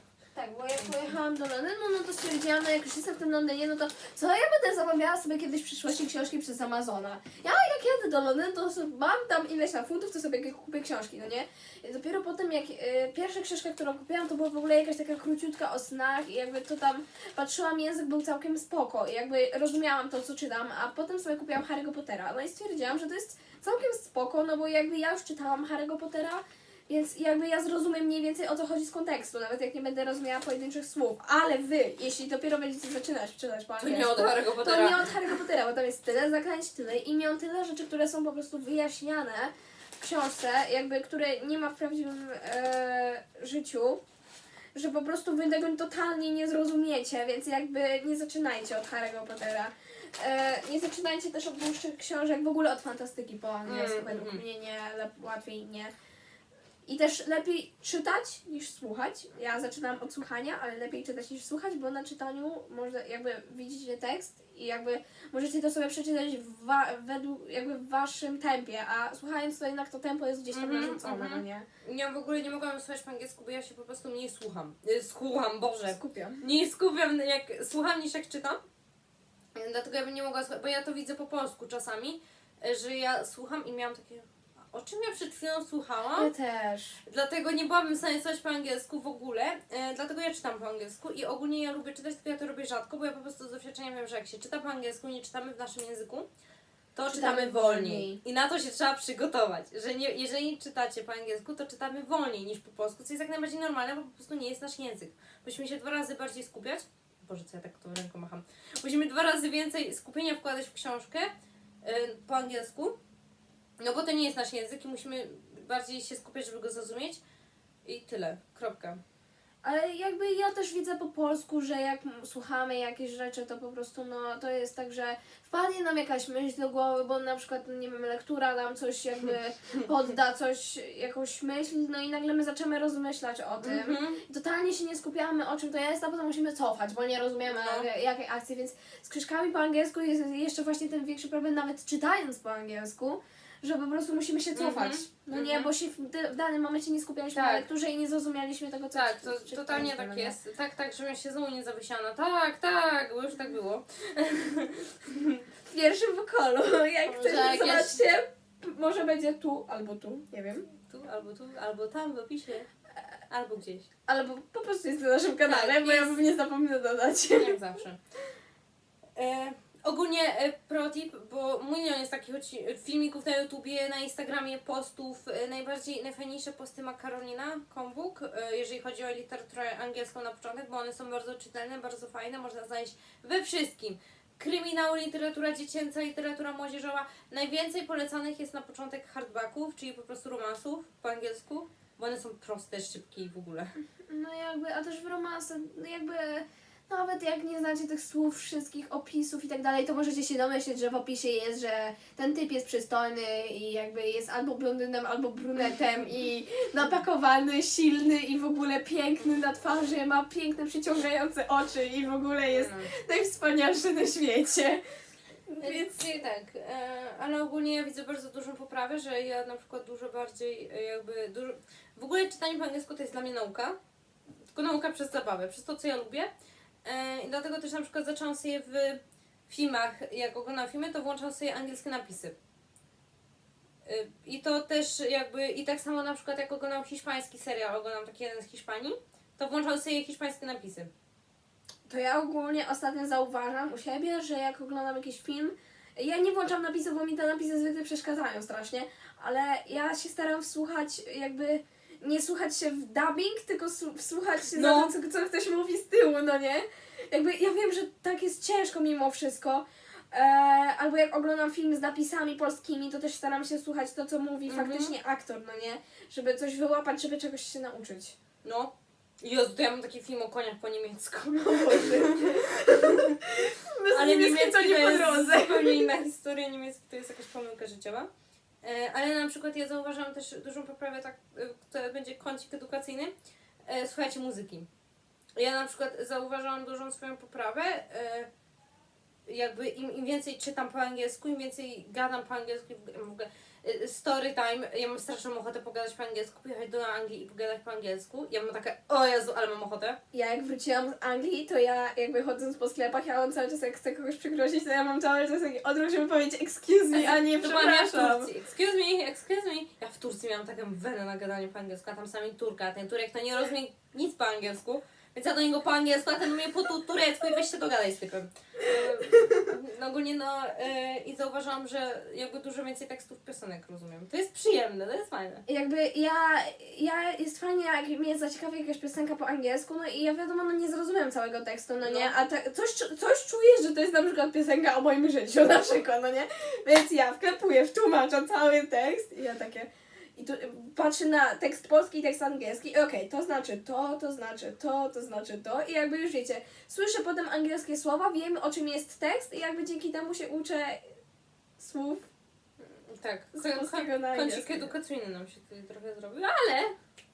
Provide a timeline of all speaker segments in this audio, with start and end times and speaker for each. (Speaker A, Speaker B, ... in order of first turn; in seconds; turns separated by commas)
Speaker A: 0.3-44.0, Speaker B: 33.8-35.2, Speaker A: 44.7-55.9, Speaker B: 53.7-54.4, Speaker A: 56.9-71.7, Speaker B: 70.5-78.6, Speaker A: 75.9-76.4, Speaker B: 79.5-86.3, Speaker A: 86.2-87.0, Speaker B: 87.0-96.3, Speaker B: 97.0-111.3, Speaker A: 97.1-98.2, Speaker B: 111.8-113.0, Speaker B: 113.8-117.2, Speaker B: 117.8-119.0, Speaker A: 119.6-150.4, Speaker B: 133.6-134.2, Speaker B: 137.5-137.9, Speaker B: 144.6-145.7, Speaker B: 147.3-147.7, Speaker B: 148.9-155.4, Speaker A: 155.7-160.7, Speaker B: 157.1-158.1, Speaker B: 160.9-162.7, Speaker B: 163.3-163.9, Speaker A: 164.1-167.6, Speaker B: 165.4-166.2, Speaker B: 167.4-168.0, Speaker B: 169.2-193.7, Speaker A: 194.0-214.8, Speaker B: 212.5-212.9, Speaker A: 215.5-215.9, Speaker B: 215.6-223.8, Speaker B: 224.5-226.3, Speaker B: 226.8-232.4, Speaker B: 233.8-240.9, Speaker A: 241.9-268.2, Speaker B: 254.5-254.9, Speaker B: 264.5-264.9, Speaker B: 268.4-273.2, Speaker A: 271.5-275.9, Speaker B: 273.9-278.1, Speaker B: 278.6-283.1, Speaker B: 283.7-284.7, Speaker B: 285.4-288.3, Speaker B: 289.3-300.0, Speaker A: 300.1-308.3, Speaker B: 306.9-325.4, Speaker A: 325.5-350.8, Speaker B: 331.8-332.1, Speaker A: 351.6-352.1, Speaker B: 352.6-356.7, Speaker A: 353.3-354.7